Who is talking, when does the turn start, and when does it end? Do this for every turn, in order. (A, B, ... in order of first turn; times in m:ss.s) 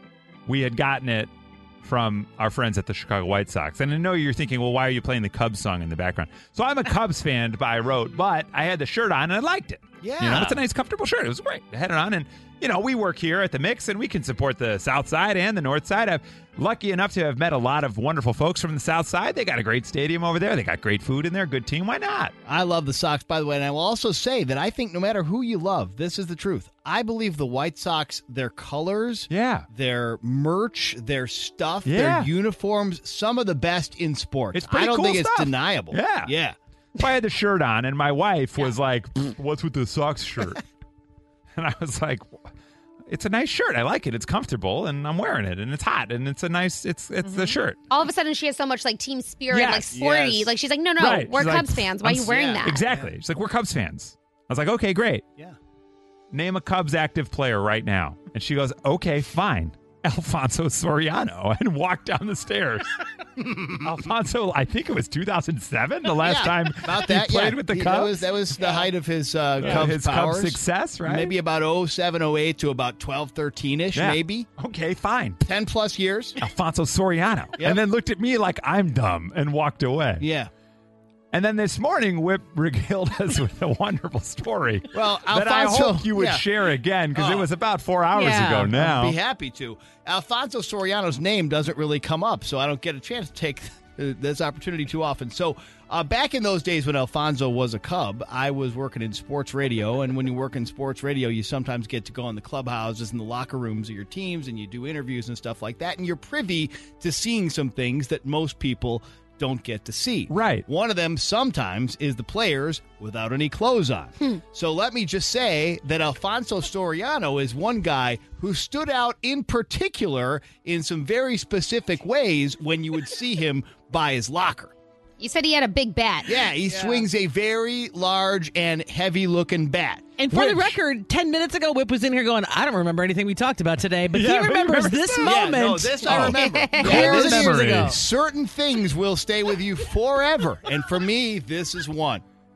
0:00.5-0:01.3 A
0:01.8-0:22.3 A
0:10.0-0:10.6 B
0:22.4-0:36.5 B
0:29.3-0:29.7 A
0:31.8-0:32.3 A
0:34.5-0:36.3 A
0:37.0-0:40.6 A
0:41.5-0:42.4 A
0:43.1-0:47.8 A
0:47.9-0:52.9 C
0:49.5-0:49.9 A
0:49.9-0:50.5 B
0:51.0-0:55.3 A
0:52.2-0:53.1 B
0:56.3-1:03.0 A
1:03.4-1:03.9 B
1:03.8-1:08.1 A
1:06.2-1:14.5 B
1:09.6-1:11.4 A
1:13.9-1:15.4 A
1:15.4-1:16.4 B
1:16.4-1:20.2 A
1:20.2-1:20.5 B
1:21.3-1:29.2 A
1:24.9-1:26.4 B
1:27.1-1:27.5 B
1:28.1-1:28.7 D
1:28.7-2:04.7 B
1:50.3-1:50.6 A
2:05.2-2:06.5 C
2:06.2-2:10.5 B
2:06.7-2:07.0 D
2:10.2-2:18.0 D
2:14.1-2:15.1 A
2:15.2-2:22.2 B
2:16.1-2:18.0 A
2:16.2-2:17.5 C